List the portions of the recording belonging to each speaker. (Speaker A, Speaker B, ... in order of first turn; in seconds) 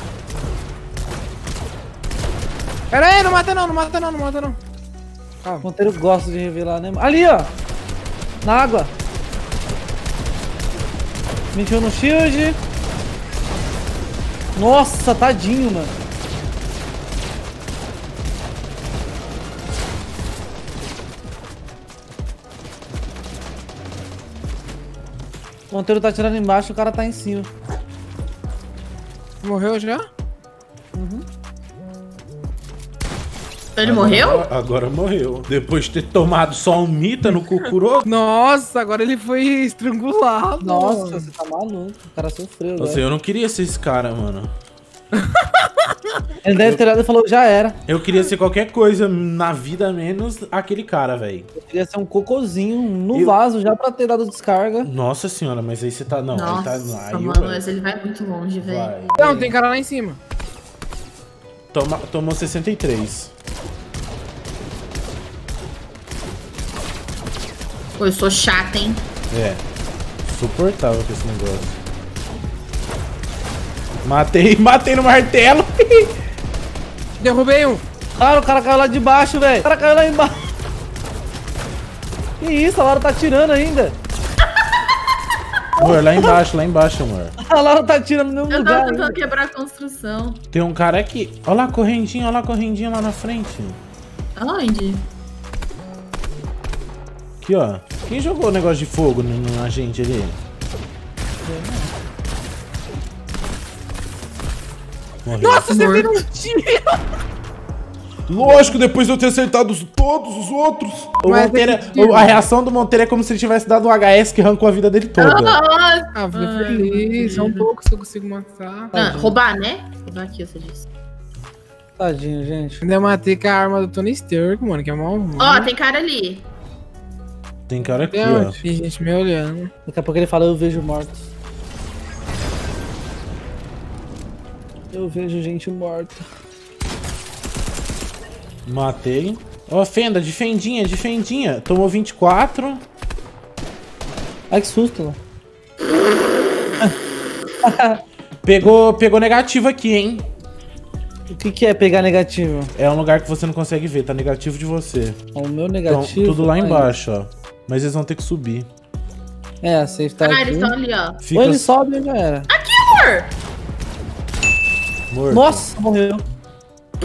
Speaker A: 2.9-4.6, 29.4-30.1, 38.0-41.3, 45.2-45.9, 59.2-60.2, 77.2-77.8, 105.4-107.0, 111.2-112.4, 116.1-118.9, 122.8-125.7, 128.0-129.7
Speaker B: 5.6-7.5, 8.4-8.9, 11.5-12.6, 14.6-15.9, 25.7-27.5, 30.9-31.2, 40.6-43.0, 46.4-47.8, 51.6-54.9, 78.2-80.4, 82.4-84.0, 87.4-89.2, 101.4-101.9, 118.9-119.3, 122.0-122.8, 129.8-131.3, 134.9-136.2, 144.5-145.2, 147.6-148.0, 151.3-152.7, 155.3-156.9, 159.6-160.7, 161.3-162.5, 165.3-166.2
Speaker C: 33.8-34.5, 56.3-58.9, 68.0-69.0, 88.5-90.4, 94.3-95.0, 105.7-106.1, 115.2-117.7, 118.9-120.8, 125.4-126.5, 160.2-161.2, 162.5-163.3
Speaker D: 33.8-38.1, 42.8-44.5, 46.5-46.8, 47.9-51.5, 53.1-53.4, 54.8-57.7, 58.6-59.5, 61.7-63.3, 69.3-69.6, 70.2-71.8, 74.0-76.1, 85.8-87.3, 90.5-93.8, 97.4-100.4, 105.2-105.7, 108.3-115.6, 127.7-128.6, 138.7-142.8, 148.4-150.3, 152.8-155.2, 155.9-158.7, 161.2-161.7, 165.1-165.7